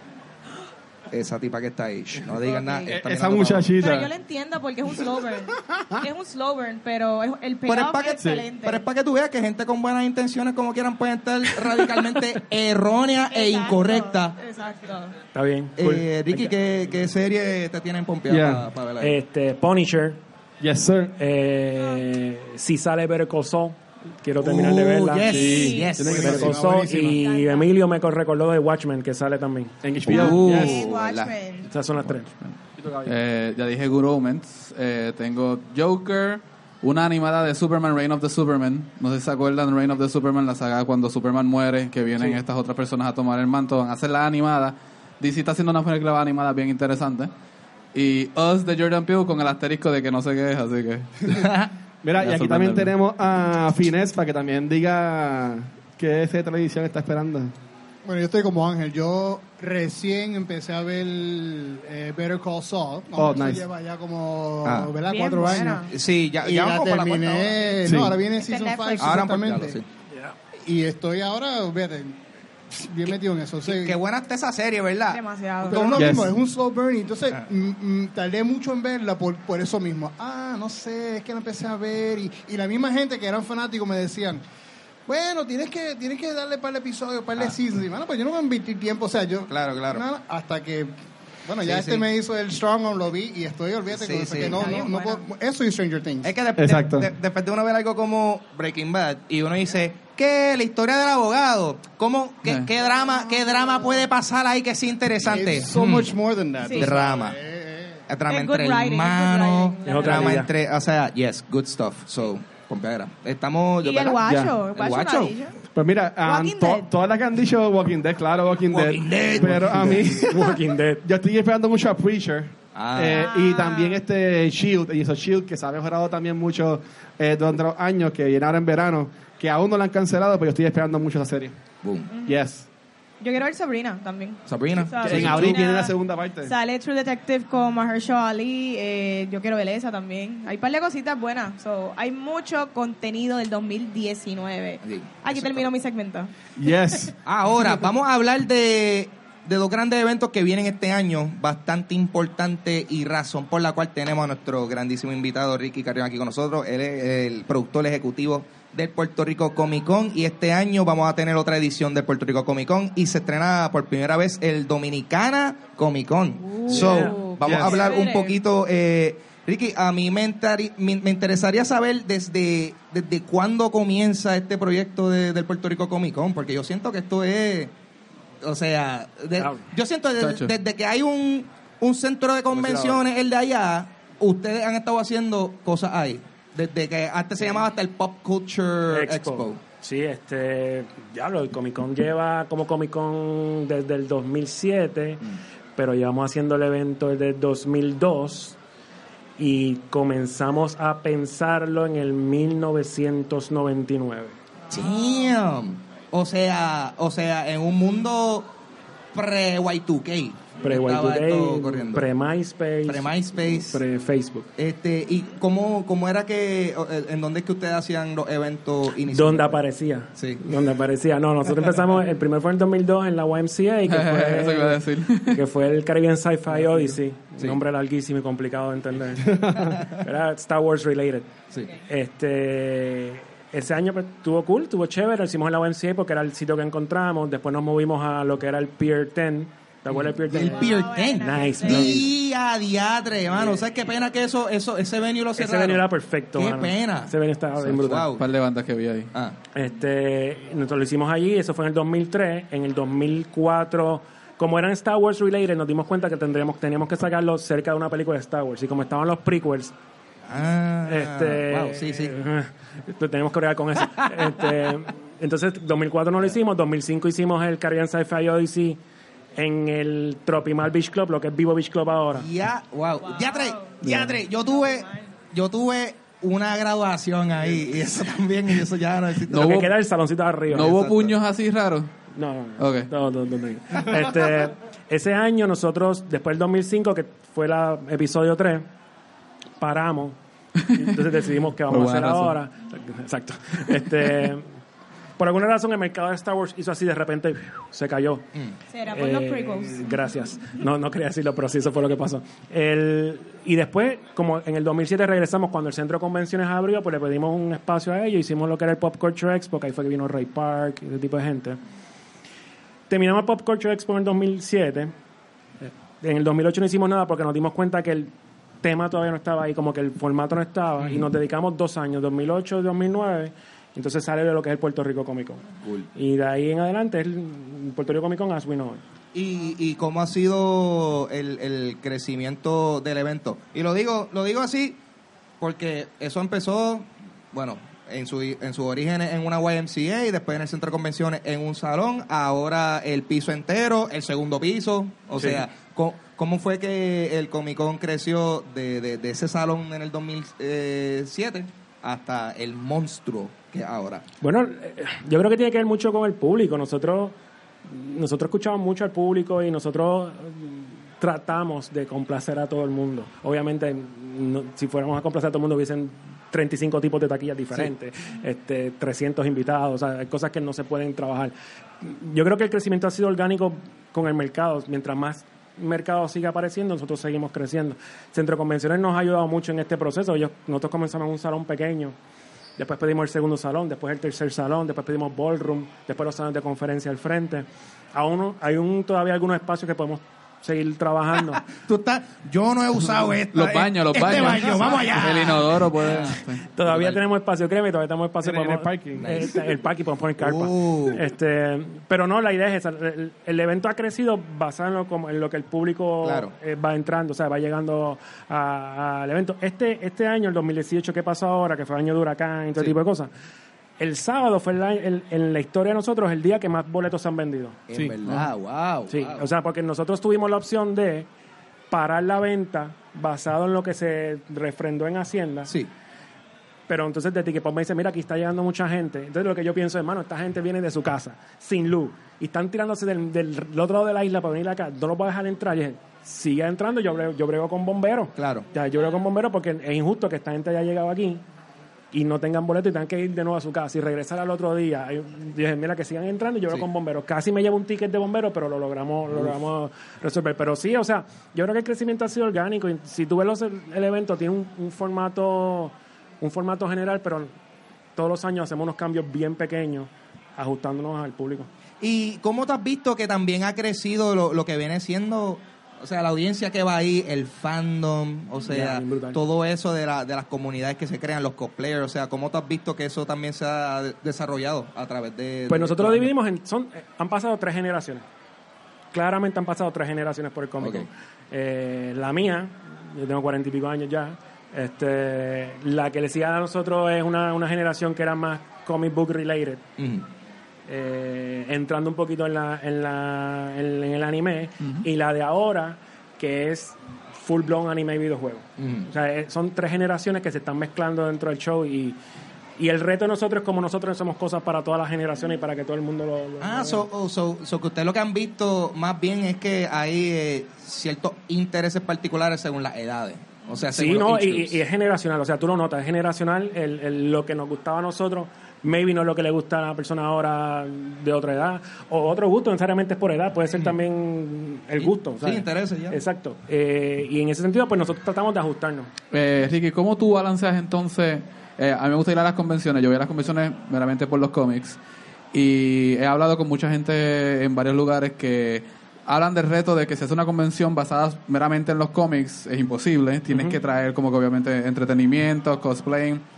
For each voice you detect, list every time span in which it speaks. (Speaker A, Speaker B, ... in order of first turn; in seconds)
Speaker A: 1.1-3.8, 7.7-14.3, 15.8-19.1, 24.4-26.6, 30.1-31.3, 51.2-51.7, 64.6-64.9, 65.8-67.6, 69.0-69.8, 73.0-76.1, 89.5-90.0, 91.6-92.0, 93.9-94.9, 96.2-106.1, 106.7-107.4, 108.1-115.3, 118.7-120.3, 122.7-123.3, 131.8-132.1, 134.5-135.7, 144.8-145.7, 147.2-177.7, 178.4-189.6, 204.7-208.5, 209.1-212.1, 212.8-213.8, 214.6-219.5, 220.1-220.4, 239.9-248.2, 260.3-262.1, 264.0-264.4, 272.1-279.7, 280.5-281.1, 320.8-321.0, 329.1-334.8, 335.4-354.0, 391.5-397.0, 398.9-399.4, 400.2-401.0, 406.0-406.3, 417.7-419.2, 438.1-438.4, 461.8-476.1, 480.6-480.9, 489.8-490.1, 498.6-498.9, 506.4-514.5, 524.8-526.0
Speaker B: 2.3-3.0, 3.7-8.8, 13.3-15.1, 25.3-26.1, 27.1-27.7, 30.1-31.7, 65.1-65.9, 68.3-69.3, 75.1-76.0, 94.4-95.2, 106.6-106.9, 108.3-110.4, 113.8-115.5, 116.2-116.9, 123.1-124.0, 132.1-132.4, 133.2-146.3, 166.5-168.3, 240.4-242.0, 273.0-273.8, 274.4-275.1, 298.7-300.0
Speaker C: 2.9-4.1, 8.2-8.4, 18.3-18.6, 20.6-21.1, 25.3-27.1, 29.8-30.8, 32.8-33.1, 52.0-57.5, 63.2-63.6, 67.8-68.1, 76.0-76.3, 96.6-97.1, 114.2-114.5, 115.7-131.6, 132.2-132.7, 135.0-136.5, 146.6-147.6, 167.4-167.8, 229.2-229.8, 398.2-399.3
Speaker D: 15.3-16.5, 19.0-20.2, 21.2-29.7, 31.7-32.3, 109.8-110.5, 120.0-121.0, 166.7-167.2, 179.4-179.6, 182.5-183.0, 188.9-195.2, 195.8-198.6, 199.4-204.3, 210.6-214.5, 219.1-231.3, 231.9-242.1, 245.3-248.1, 249.5-259.7, 260.8-268.8, 269.4-272.3, 279.3-280.7, 282.1-288.7, 289.6-290.2, 290.7-294.5, 295.2-298.2, 298.9-311.6, 312.9-314.9, 315.6-318.1, 318.6-325.4, 325.9-328.8, 354.2-357.1, 357.6-381.9, 382.6-391.4, 396.4-413.1, 413.8-417.6, 418.9-421.1, 421.7-425.5, 426.7-441.2, 441.9-457.3, 457.9-461.5, 468.5-469.2, 475.5-478.0, 478.9-489.6, 490.7-502.0, 502.6-506.8, 513.7-528.9, 543.3-543.6
Speaker E: 26.1-27.2, 58.0-65.9, 66.4-69.8, 70.6-74.0, 75.7-84.4, 85.0-90.9, 91.5-96.3, 105.2-108.0
Speaker F: 32.0-47.3, 47.9-51.4, 52.2-52.9, 180.2-180.5, 223.9-225.4, 248.2-249.1, 273.9-274.1, 279.3-279.7, 280.5-281.9, 282.6-282.9, 290.6-290.9, 291.7-292.4, 393.3-396.4, 529.1-534.8, 535.3-546.2